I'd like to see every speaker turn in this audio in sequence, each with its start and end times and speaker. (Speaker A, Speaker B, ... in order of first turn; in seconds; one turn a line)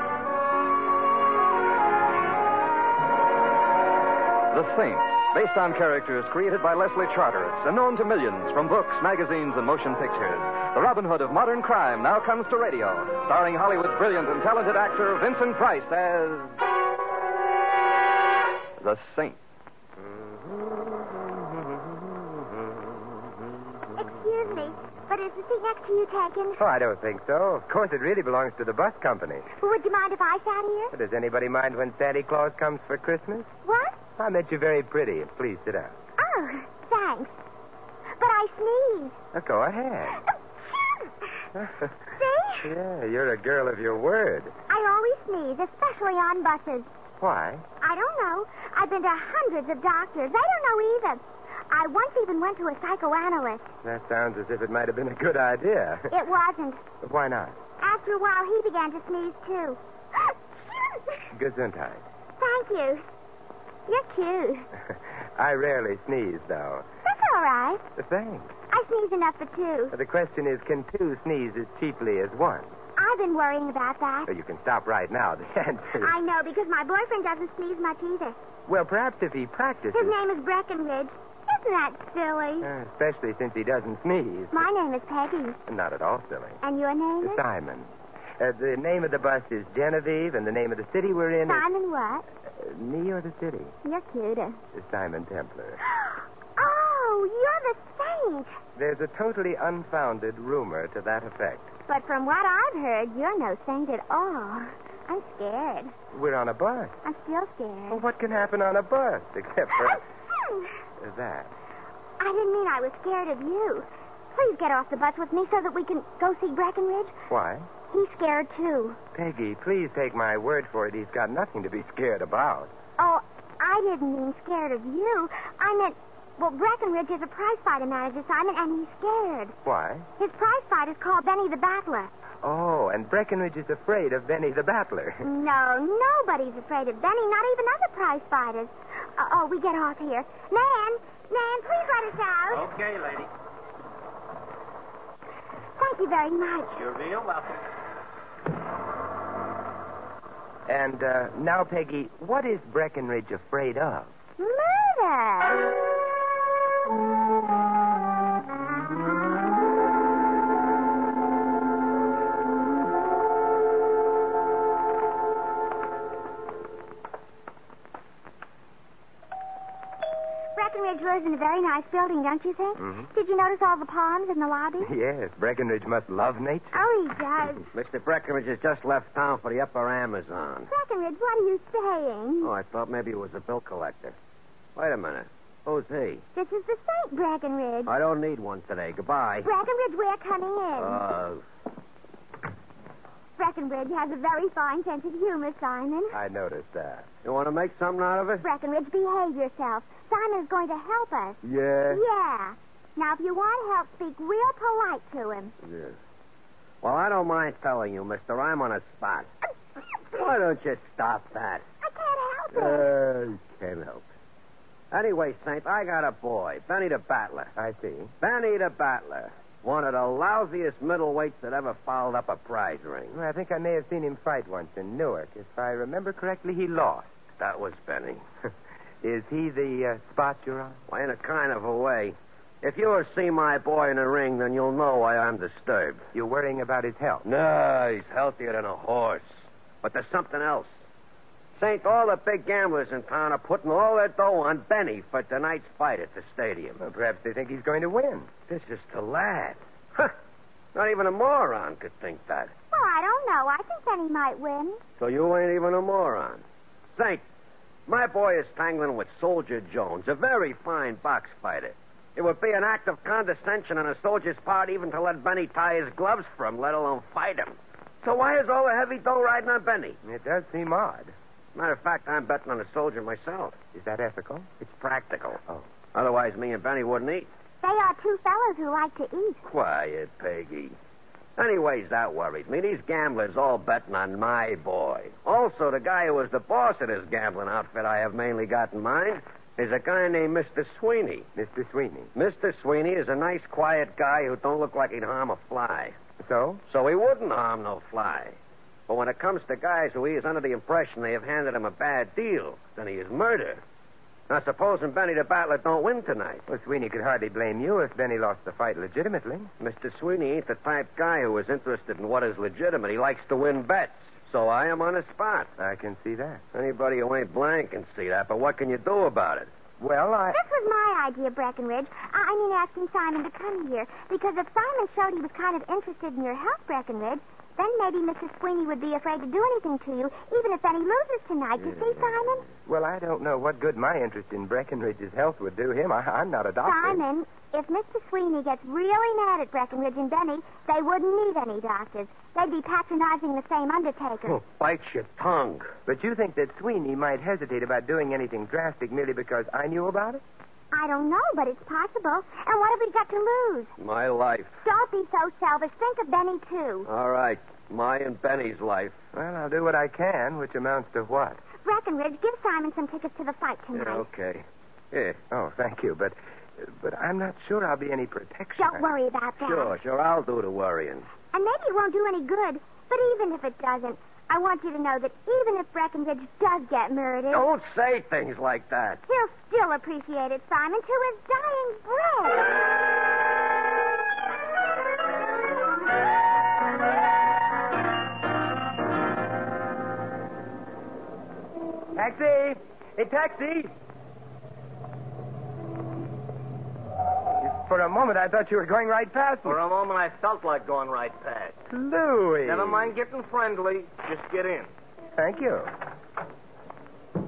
Speaker A: 4.5-16.6
Speaker A: 18.8-19.4
Speaker B: 24.0-26.6
Speaker C: 26.6-29.5
Speaker B: 29.6-30.9
Speaker C: 30.9-33.5
Speaker B: 33.6-34.0
Speaker C: 34.2-36.0
Speaker B: 36.2-37.4
Speaker B: 38.2-39.2
Speaker C: 39.3-40.2
Speaker B: 41.0-41.5
Speaker C: 41.5-44.5
Speaker B: 42.2-42.7
Speaker B: 44.7-46.9
Speaker C: 47.2-47.7
Speaker B: 47.8-53.7
Speaker C: 53.8-56.2
Speaker B: 56.1-56.8
Speaker C: 57.0-57.6
Speaker B: 57.8-61.2
Speaker C: 61.3-62.0
Speaker B: 62.4-63.0
Speaker B: 63.9-64.7
Speaker C: 64.9-66.9
Speaker B: 67.0-67.8
Speaker C: 68.0-68.5
Speaker B: 68.7-69.9
Speaker C: 69.9-72.7
Speaker B: 73.0-74.3
Speaker C: 74.3-76.1
Speaker B: 76.0-78.4
Speaker C: 78.7-80.2
Speaker B: 79.9-82.7
Speaker C: 82.6-84.7
Speaker B: 84.5-85.6
Speaker C: 85.7-86.6
Speaker B: 86.6-87.4
Speaker C: 87.2-91.7
Speaker B: 91.5-92.2
Speaker C: 92.5-93.7
Speaker B: 93.8-94.6
Speaker C: 94.7-95.8
Speaker B: 96.0-98.6
Speaker C: 98.8-101.8
Speaker B: 101.9-105.9
Speaker C: 106.1-107.0
Speaker B: 107.0-108.0
Speaker C: 107.9-110.0
Speaker B: 109.9-110.7
Speaker C: 111.0-111.5
Speaker B: 112.2-117.1
Speaker C: 117.3-117.7
Speaker B: 117.9-119.0
Speaker C: 119.1-122.7
Speaker B: 123.0-129.6
Speaker C: 129.6-130.1
Speaker B: 130.2-132.1
Speaker C: 132.4-135.3
Speaker B: 135.2-142.7
Speaker D: 142.6-143.3
Speaker B: 145.8-146.8
Speaker D: 146.8-147.6
Speaker C: 150.7-154.1
Speaker B: 154.4-155.7
Speaker B: 170.6-174.9
Speaker C: 172.8-173.1
Speaker C: 174.8-176.8
Speaker B: 176.7-177.7
Speaker E: 177.7-180.7
Speaker B: 180.7-182.5
Speaker E: 182.4-184.2
Speaker E: 184.8-186.2
Speaker B: 186.3-187.9
Speaker E: 187.9-189.5
Speaker B: 189.4-191.0
Speaker E: 190.8-191.4
Speaker B: 193.4-196.2
Speaker C: 196.1-197.1
Speaker E: 197.2-198.4
Speaker B: 198.4-201.4
Speaker C: 201.4-202.0
Speaker B: 201.9-205.6
Speaker E: 205.6-206.0
Speaker E: 206.8-209.3
Speaker E: 210.1-211.6
Speaker B: 211.8-212.9
Speaker E: 212.6-214.0
Speaker C: 212.7-213.6
Speaker E: 214.9-217.5
Speaker C: 217.6-218.1
Speaker E: 218.2-223.2
Speaker C: 223.1-227.2
Speaker E: 227.4-228.2
Speaker C: 229.0-230.8
Speaker E: 230.9-236.0
Speaker C: 236.1-237.3
Speaker E: 237.2-239.2
Speaker E: 239.8-240.7
Speaker E: 241.6-246.8
Speaker C: 246.8-248.3
Speaker E: 248.5-250.2
Speaker E: 250.8-252.5
Speaker B: 252.7-254.8
Speaker E: 255.0-256.4
Speaker E: 257.0-257.2
Speaker E: 257.9-270.0
Speaker C: 270.0-271.1
Speaker E: 271.6-273.6
Speaker C: 273.7-274.6
Speaker E: 274.6-275.4
Speaker E: 275.9-277.3
Speaker B: 277.6-279.4
Speaker E: 279.4-280.8
Speaker E: 281.4-291.3
Speaker C: 291.4-292.1
Speaker E: 292.1-295.9
Speaker C: 296.2-296.6
Speaker E: 296.7-298.4
Speaker E: 298.9-303.6
Speaker E: 304.3-306.4
Speaker C: 306.5-309.5
Speaker E: 309.6-315.5
Speaker C: 315.6-316.4
Speaker E: 316.5-319.5
Speaker C: 319.8-320.4
Speaker B: 320.3-332.5
Speaker C: 331.7-337.0
Speaker B: 336.6-344.4
Speaker E: 344.3-345.7
Speaker C: 345.9-350.2
Speaker B: 350.7-353.7
Speaker E: 353.8-354.5
Speaker B: 354.6-356.9
Speaker E: 356.9-359.0
Speaker C: 359.1-361.4
Speaker B: 361.6-364.1
Speaker E: 363.7-365.2
Speaker C: 365.3-368.9
Speaker B: 368.6-369.7
Speaker E: 369.4-371.1
Speaker B: 371.3-377.5
Speaker E: 377.3-379.0
Speaker B: 379.1-382.6
Speaker C: 391.9-393.7
Speaker C: 397.4-399.6
Speaker D: 399.4-401.6
Speaker C: 401.7-402.9
Speaker D: 402.4-404.7
Speaker C: 405.1-405.7